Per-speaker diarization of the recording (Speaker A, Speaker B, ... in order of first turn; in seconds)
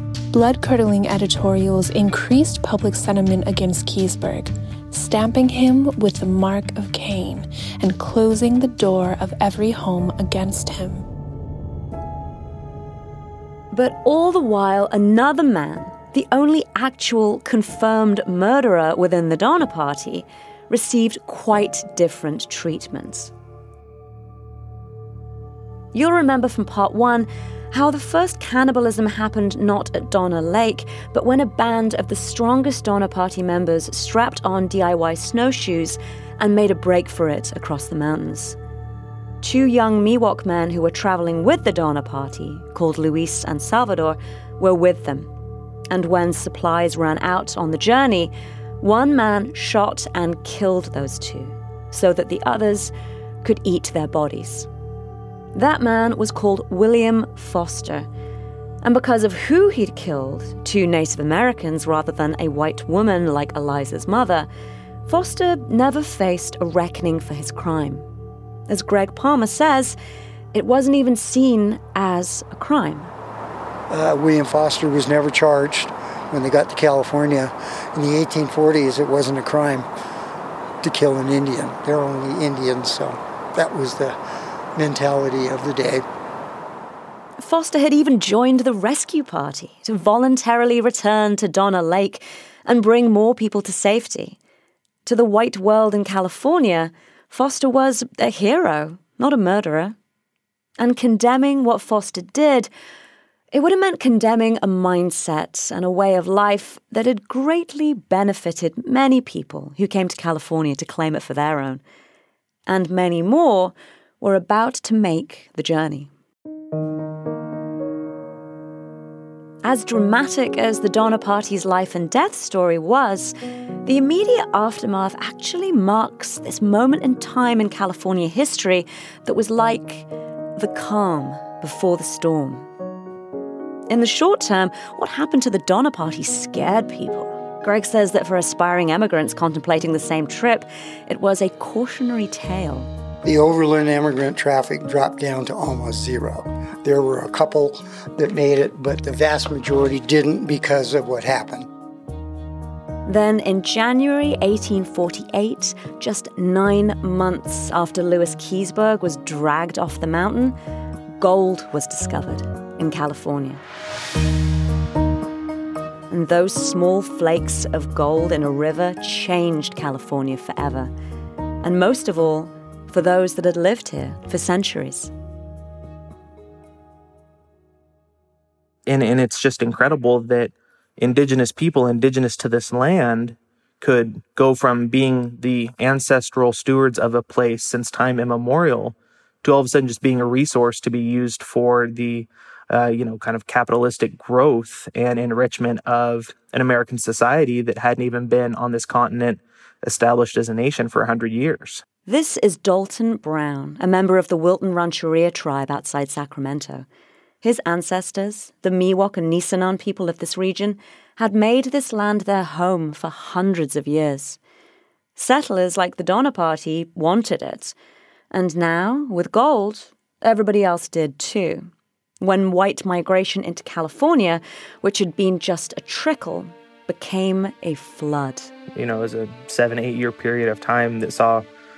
Speaker A: 0.3-11.1
Speaker B: 13.7-23.3, 25.9-38.6, 39.4-45.3, 45.9-54.7, 55.5-58.1, 58.8-64.5, 65.1-68.1, 68.7-70.0, 70.5-73.1, 87.4-94.4, 95.1-100.0, 100.8-102.7, 103.5-111.8, 112.7-116.1, 119.6-123.3, 123.8-132.7, 133.9-142.9, 153.1-160.6, 161.2-163.6, 166.1-170.9, 171.6-175.1, 202.1-206.9, 207.4-214.4, 215.2-217.8, 218.3-221.7, 222.2-228.5
Speaker C: 73.9-79.9, 80.8-84.2, 84.8-86.1, 143.2-151.7
Speaker D: 178.9-201.8, 228.7-231.4